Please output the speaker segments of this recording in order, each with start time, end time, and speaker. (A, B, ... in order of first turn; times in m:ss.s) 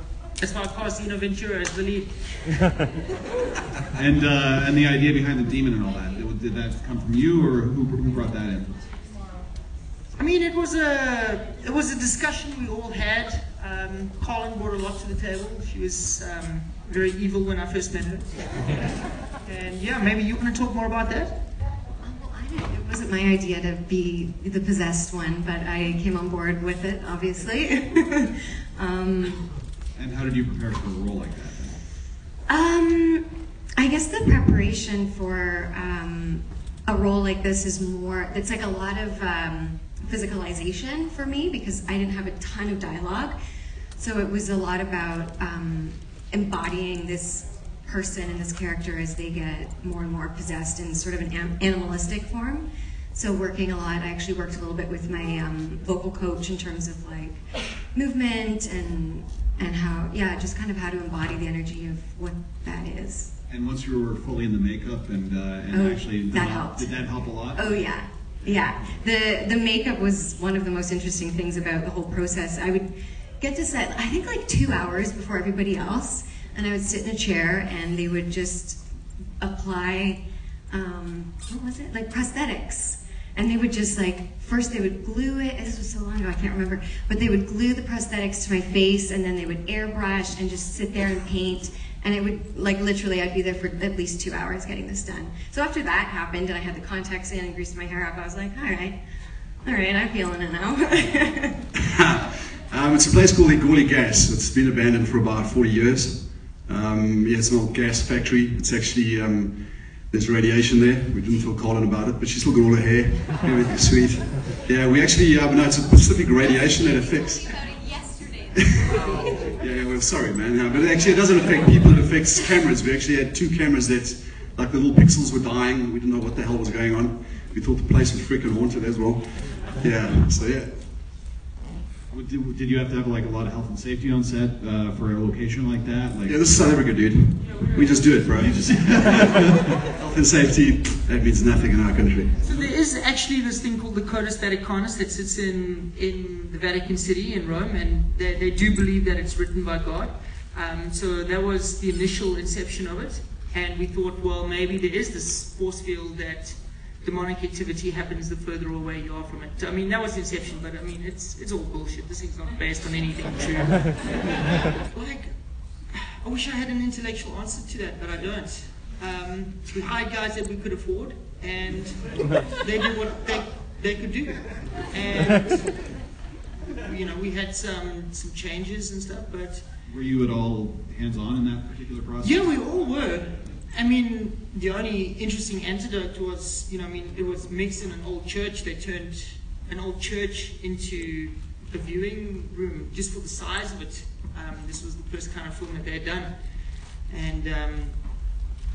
0:00.4-0:02.2 A
0:03.9-0:08.8 B
0:10.2-0:18.8 A
0:19.4-0:21.4 A
0:22.0-0:29.5 C
0:30.0-0:31.8 B
0:32.5-0:33.2 C
0:33.8-0:43.3 C
0:44.0-1:03.3 C
1:03.5-1:07.9 B
1:05.7-1:12.9 C
1:13.4-1:18.8 C
1:19.4-1:39.0 C
1:39.6-1:41.6 C
1:41.8-1:58.7 D
1:59.6-2:10.8 D
2:12.1-2:16.5 B
2:16.3-2:22.4 D
2:18.3-2:20.0 B
2:22.4-2:55.9 A
2:56.8-2:59.6 A
2:59.8-3:02.8 B
3:02.2-3:18.3 A